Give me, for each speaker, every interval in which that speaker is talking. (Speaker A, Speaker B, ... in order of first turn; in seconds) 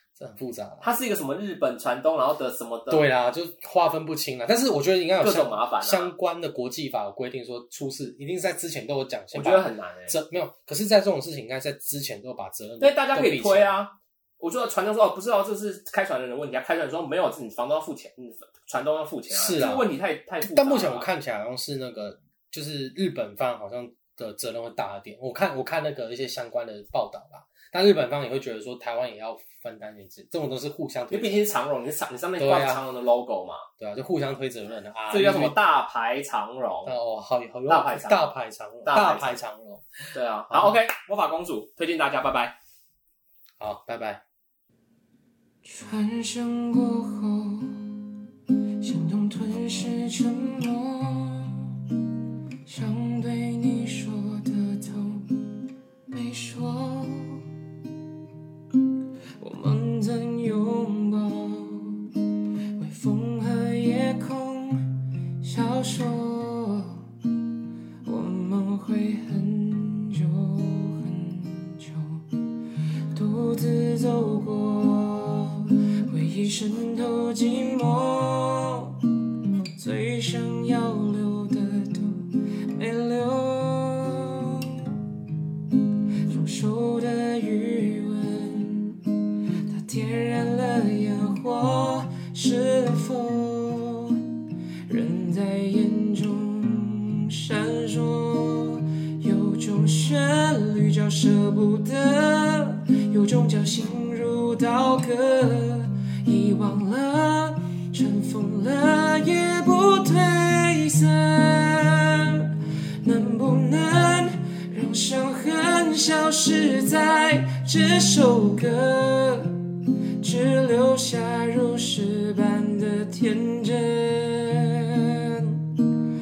Speaker A: 0.2-0.9, 2.9-13.8, 19.3-19.9, 20.4-31.4, 32.4-32.8, 33.8-35.6, 36.9-39.9, 40.5-40.8, 43.6-44.2
Speaker B: 0.8-3.1, 5.2-6.1, 9.3-10.2, 12.8-21.1, 31.1-33.7, 35.1-36.9, 37.7-39.4, 40.1-42.6
Speaker C: 45.6-48.1, 48.8-51.7, 52.7-55.5, 56.1-57.5, 59.4-62.1, 62.8-67.0, 68.0-72.2, 73.1-79.0, 79.8-84.9, 86.3-89.1, 89.7-94.2, 94.9-119.6, 120.2-125.7